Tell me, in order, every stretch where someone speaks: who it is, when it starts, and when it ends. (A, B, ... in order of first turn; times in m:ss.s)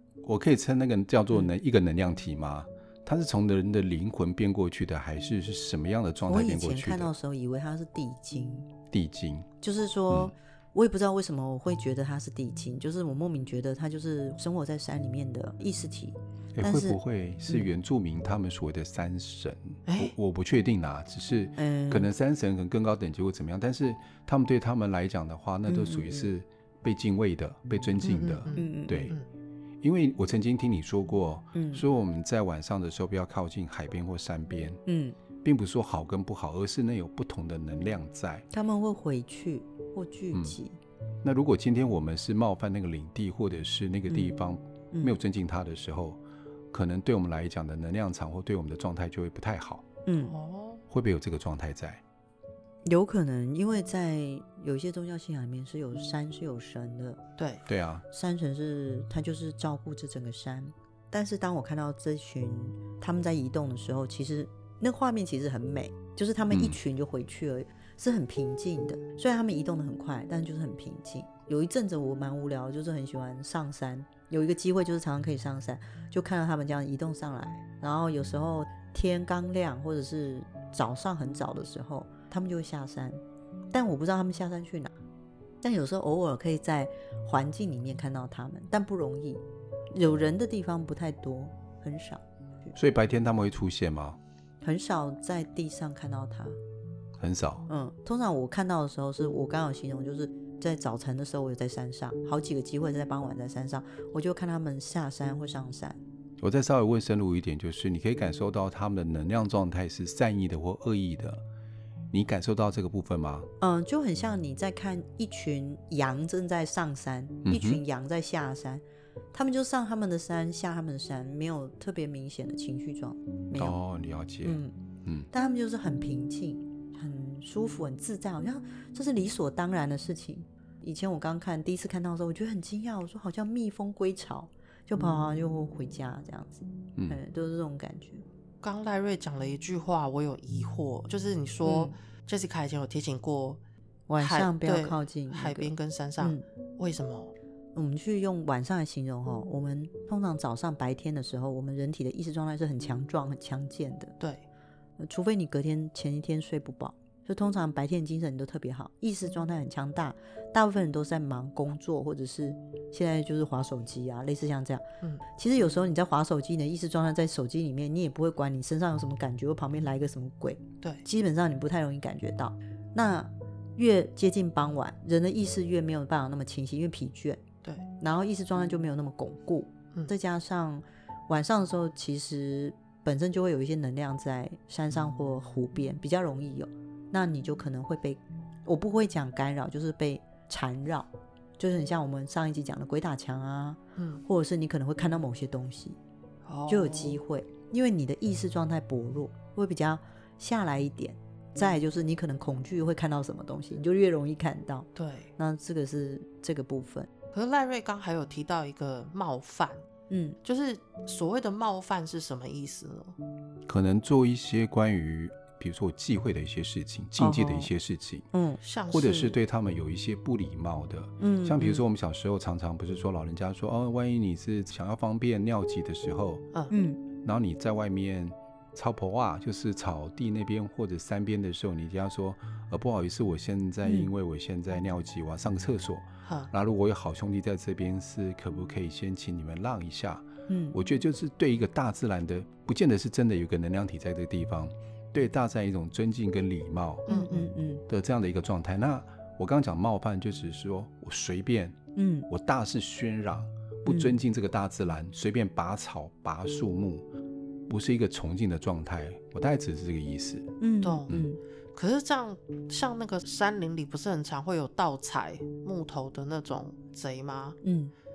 0:00.2-0:07.1 A
0:06.3-0:08.7 B
0:08.9-0:09.5 A
0:09.6-0:17.0 B
0:16.6-0:29.2 A
0:19.8-0:20.1 C
0:21.6-0:22.1 B
0:25.7-0:26.3 B
0:28.0-0:29.3 C
0:28.6-0:29.1 B
0:29.8-0:34.8 A
0:31.5-0:31.8 B
0:34.8-0:35.2 B
0:35.4-0:38.4 A
0:38.5-0:40.8 B
0:41.2-0:46.2 A
0:44.1-0:44.4 B
0:46.7-0:49.8 A
0:50.1-0:50.3 B
0:50.3-0:50.8 C
0:50.9-0:52.0 A
0:52.8-0:57.2 B
0:57.7-0:58.0 A
0:58.1-1:23.2 B
1:06.5-1:06.8 A
1:23.7-1:24.9 B
1:25.6-1:32.7 B
1:32.8-1:34.2 A
1:34.6-1:36.6 B
1:37.2-1:37.7 A
1:37.7-1:46.0 B
1:46.4-1:51.4 A
1:52.1-1:53.5 A
1:53.6-2:03.8 B
1:57.4-1:57.8 A
2:03.6-2:05.3 A
2:04.4-2:04.8 B
2:05.3-2:18.3 B
2:17.0-2:17.2 A
2:18.6-2:23.6 C
2:21.6-2:21.9 B
2:24.1-2:26.4 B
2:24.2-2:27.3 C
2:27.8-2:34.2 B
2:34.2-2:34.4 C
2:35.0-2:57.4 B
2:58.0-3:16.0 B
3:14.0-3:14.2 C
3:16.4-3:17.2 C
3:16.7-3:27.1 B
3:25.0-3:25.3 C
3:27.3-3:29.8 C
3:30.1-3:30.4 B
3:30.4-3:33.2 C
3:33.7-3:38.3 A
3:37.2-3:37.7 B
3:38.3-3:38.6 B
3:38.6-3:39.4 C
3:38.9-3:46.4 A
3:41.2-3:41.8 B
3:46.7-3:47.0 B
3:47.2-4:07.1 A
3:53.8-3:54.1 B
3:56.2-3:56.5 C
4:00.5-4:00.8 B
4:07.1-4:07.4 C
4:07.1-4:07.8 B
4:07.9-4:17.1 A
4:12.0-4:12.3 B
4:13.9-4:14.1 B
4:17.7-4:20.6 A
4:20.6-4:21.4 B
4:20.8-4:21.2 C
4:21.8-4:27.6 C
4:27.6-4:27.9 B